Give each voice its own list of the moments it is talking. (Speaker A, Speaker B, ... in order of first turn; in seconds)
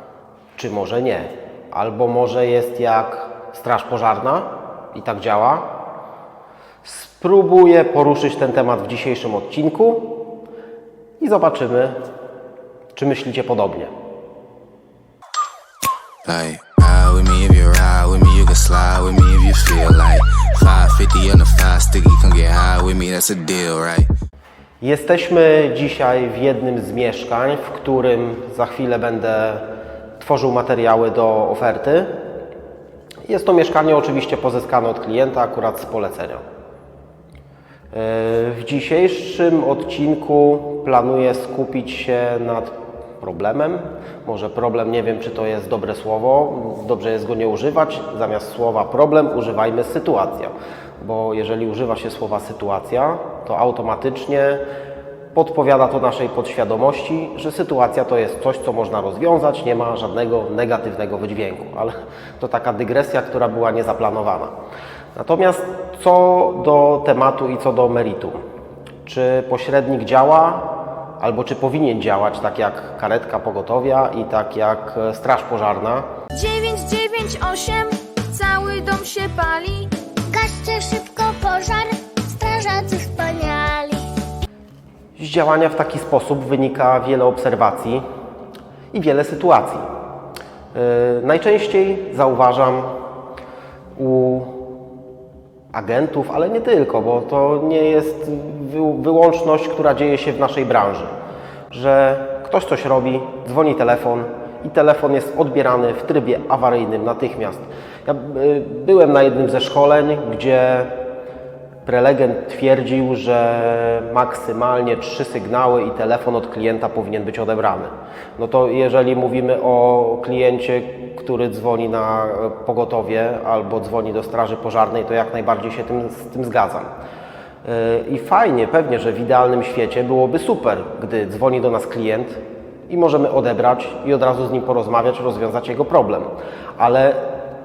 Speaker A: 0.6-5.7, 6.8-10.2, 11.2-12.0, 12.9-13.9, 24.8-29.6, 30.2-32.1, 33.3-36.4, 37.9-54.6, 55.3-64.5, 65.2-68.4, 69.0-76.0, 85.2-88.0, 88.9-89.9, 90.7-92.9, 94.0-94.5, 95.7-101.1, 101.7-110.9, 111.8-126.9, 127.6-137.2
Speaker B: 16.2-24.1
Speaker C: 76.3-79.9
Speaker D: 80.3-84.1